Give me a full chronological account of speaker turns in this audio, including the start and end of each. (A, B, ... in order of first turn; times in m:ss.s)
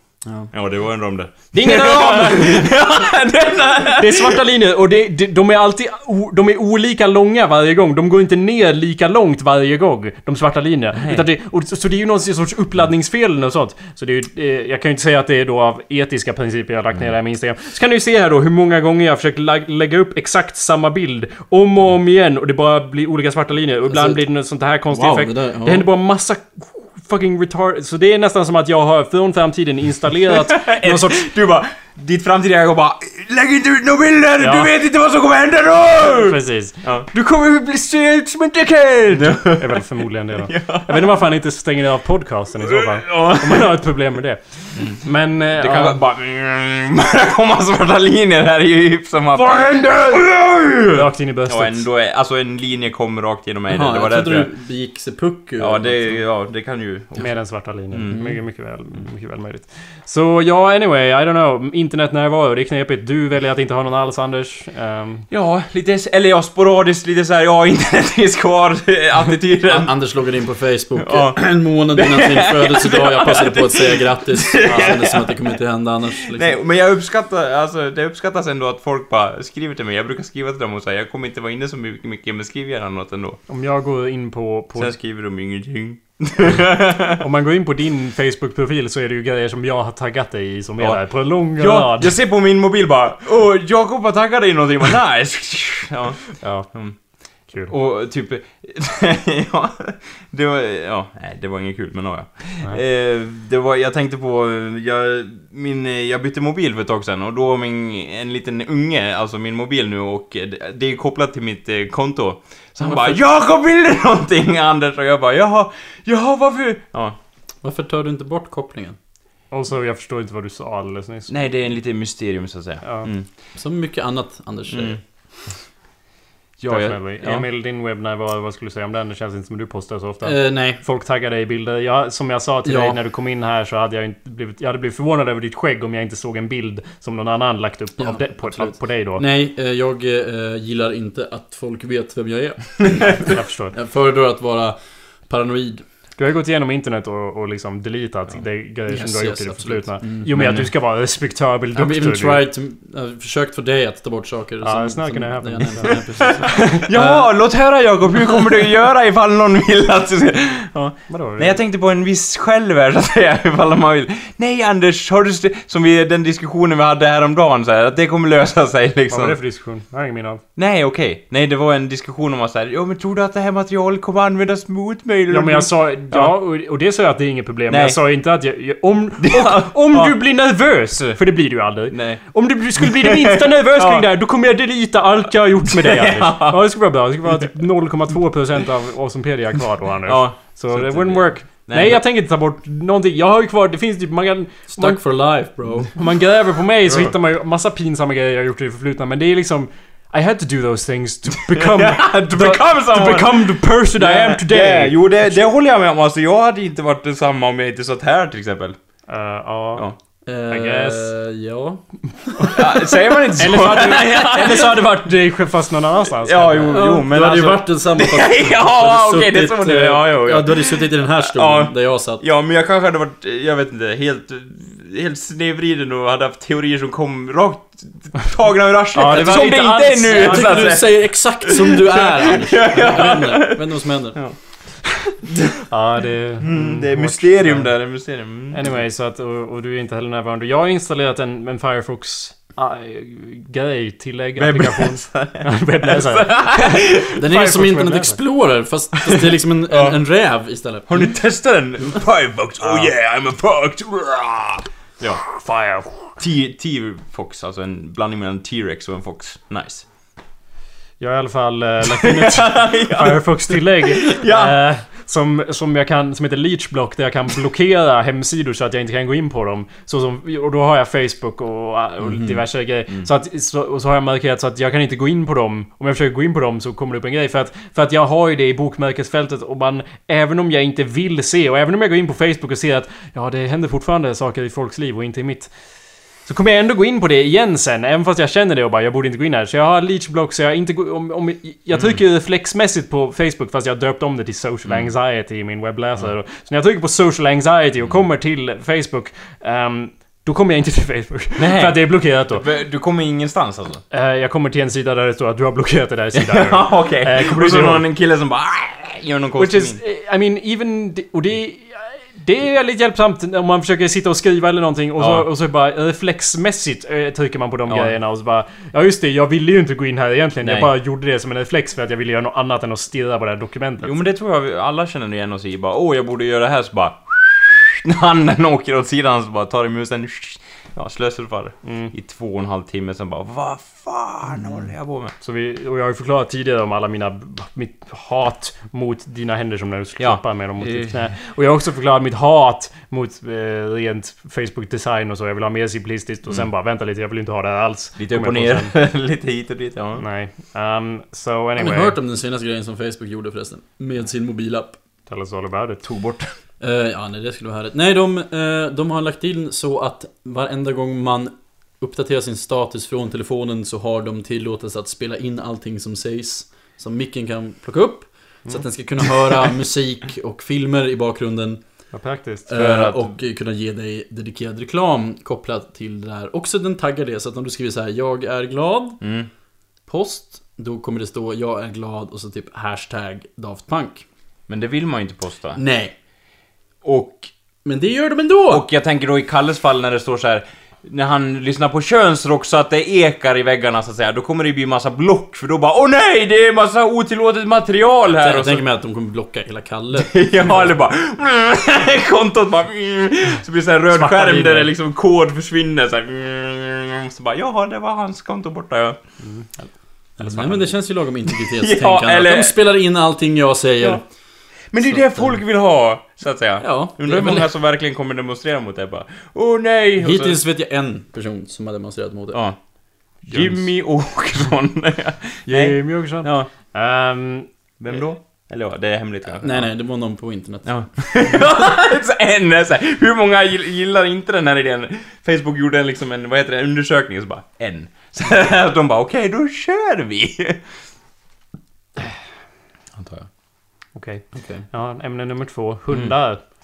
0:00.2-0:00.5 A
0:00.5-0:04.4 B
0:01.5-0:02.7 C
0:03.9-0:31.2 C
0:11.0-0:11.3 B
0:23.9-0:24.2 A
0:24.9-0:25.9 A
0:30.3-0:39.9 B
0:34.4-0:34.7 C
0:36.0-0:36.8 C
0:38.6-0:46.0 C
0:40.5-0:41.0 B
0:42.6-0:43.8 B
0:45.6-0:54.5 B
0:49.4-0:50.2 C
0:50.9-0:51.8 C
0:53.7-0:56.2 A
0:55.6-0:57.3 B
0:57.2-1:05.3 C
0:57.9-0:58.2 B
1:05.3-1:09.9 B
1:09.7-1:16.6 A
1:11.0-1:15.5 B
1:14.7-1:14.9 C
1:16.2-1:23.4 B
1:23.5-1:24.9 C
1:24.8-1:27.2 B
1:27.2-1:32.1 C
1:30.8-1:37.0 B
1:36.4-1:36.7 C
1:37.7-1:57.2 B
1:57.6-1:59.0 A
1:59.5-2:01.3 C
2:01.3-2:03.3 B
2:02.8-2:03.1 C
2:03.6-2:05.0 A
2:04.7-2:05.0 B
2:06.6-2:07.4 B
2:06.7-2:19.2 C
2:10.2-2:10.8 A
2:12.6-2:13.0 A
2:18.0-2:25.8 A
2:23.1-2:23.8 C
2:26.2-2:32.4 C
2:28.9-2:30.6 A
2:30.3-2:30.7 B
2:31.8-2:37.2 A
2:34.6-2:36.9 C
2:36.9-2:49.4 B
2:41.1-2:41.6 C
2:49.1-2:50.4 C
2:50.6-2:56.4 B
2:55.3-3:15.0 C
2:57.7-2:58.0 B
2:59.2-3:00.2 B
3:01.9-3:02.2 B
3:02.8-3:04.0 B
3:05.6-3:06.6 B
3:10.1-3:12.0 B
3:14.7-3:15.9 A
3:15.9-3:25.1 C
3:21.4-3:28.8 B
3:29.1-3:29.9 C
3:30.3-3:32.5 A
3:30.5-3:31.1 C
3:32.4-3:36.8 C
3:32.5-3:34.8 B
3:36.2-3:54.4 B
3:36.6-3:42.2 A
3:48.9-3:50.8 C
3:49.1-3:54.2 A
3:55.3-3:55.6 B
3:55.7-3:57.7 C
3:56.4-3:58.6 B
3:58.5-4:08.2 C
4:04.4-4:07.2 B
4:07.2-4:11.1 A
4:09.1-4:10.0 B
4:10.9-4:15.2 B
4:15.2-4:16.1 C
4:16.2-4:19.8 B
4:21.0-4:45.5 C
4:21.9-4:24.6 B
4:32.0-4:32.4 A
4:46.3-5:02.4 C
4:54.6-4:54.9 B
5:01.4-5:03.8 B
5:03.9-5:07.8 C
5:06.1-5:09.8 B
5:09.4-5:24.0 C
5:15.0-5:15.3 B
5:20.4-5:20.7 B
5:23.8-5:35.1 B
5:31.6-5:31.9 C
5:35.2-5:48.7 C
5:40.0-5:41.1 B
5:48.0-5:50.0 B
5:50.0-5:51.9 C
5:51.6-5:54.8 A
5:55.1-5:55.8 C
5:55.8-5:56.4 B
5:56.6-6:11.6 A
6:11.9-6:12.5 C
6:12.5-6:19.0 A
6:12.5-6:13.1 B
6:19.0-6:19.3 B
6:19.9-6:24.1 A
6:24.5-6:25.6 B
6:25.6-6:25.9 A
6:26.8-6:27.3 B
6:27.6-6:28.6 A
6:28.5-6:38.6 B
6:38.1-6:40.7 A
6:39.9-6:49.0 B
6:43.9-6:44.7 C
6:49.2-6:49.7 C
6:50.2-6:54.0 A
6:51.3-6:52.6 B
6:54.7-7:00.4 B
6:54.9-6:55.4 A
6:56.6-6:57.5 A
7:00.0-7:02.4 A
7:03.3-7:03.6 C
7:03.3-7:06.5 B
7:05.5-7:07.5 C
7:07.8-7:09.6 B
7:09.4-7:10.9 A
7:10.6-7:20.6 B
7:23.0-7:23.3 B
7:24.0-7:26.4 C
7:24.4-7:24.6 A